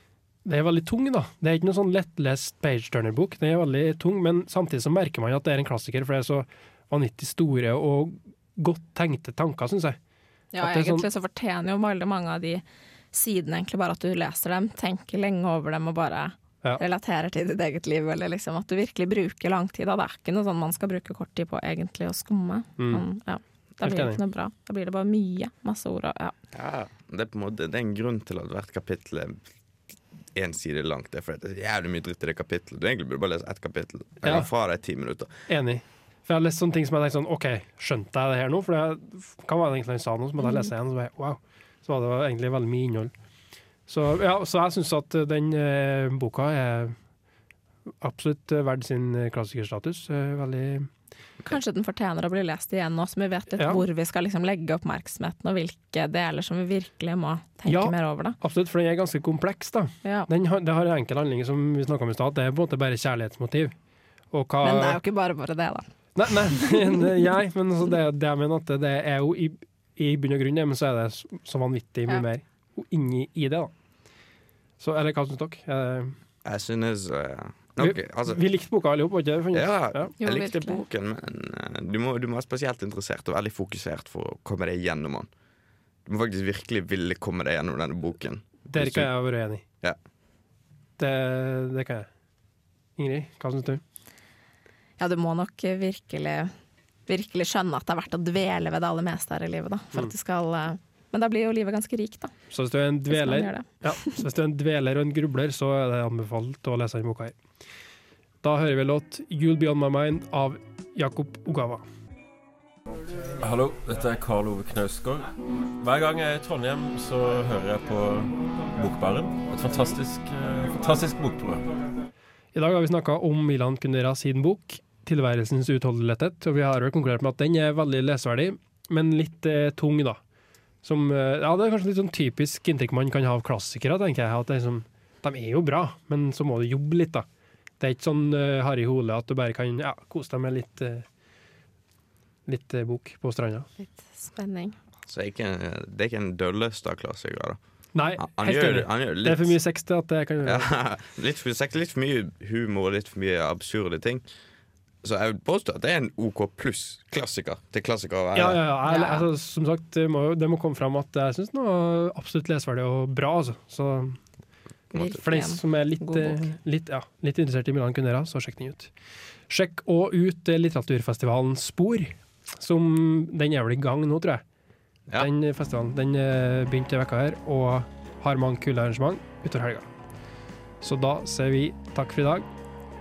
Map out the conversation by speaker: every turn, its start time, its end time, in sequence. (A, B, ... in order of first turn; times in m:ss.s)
0:00.4-0:10.0 A
0:10.5-0:26.4 B
0:10.6-0:11.1 A
0:23.8-0:24.2 A
0:26.5-0:29.4 C
0:30.4-0:35.3 C
0:35.5-0:43.1 A
0:40.4-0:40.7 B
0:43.9-0:47.0 A
0:48.0-0:50.9 A
0:51.5-0:58.4 B
0:57.7-1:03.7 A
1:00.0-1:00.3 B
1:04.3-1:05.0 A
1:04.6-1:05.9 B
1:06.2-1:13.7 A
1:06.5-1:07.0 B
1:14.8-1:16.1 A
1:16.4-1:18.4 C
1:17.8-1:20.1 A
1:19.5-1:25.3 C
1:20.2-1:20.8 B
1:26.1-1:29.1 C
1:28.7-1:29.6 A
1:31.0-1:32.1 A
1:33.0-1:33.8 A
1:35.0-1:36.5 B
1:37.1-1:42.3 B
1:42.5-1:47.4 A
1:43.1-1:44.2 B
1:48.4-1:51.8 A
1:53.4-2:01.7 D
2:02.5-2:10.2 A
2:10.8-2:17.2 A
2:17.8-2:21.1 A
2:22.5-2:23.7 A
2:23.8-2:24.8 B
2:25.1-2:27.6 C
2:28.0-2:30.7 A
2:28.2-2:29.6 C
2:30.4-2:34.2 C
2:35.0-2:38.6 C
2:38.3-2:44.2 A
2:38.9-2:39.3 B
2:44.9-2:46.5 B
2:45.1-2:48.9 A
2:49.5-2:54.4 A
2:55.2-2:59.9 A
3:00.8-3:02.5 A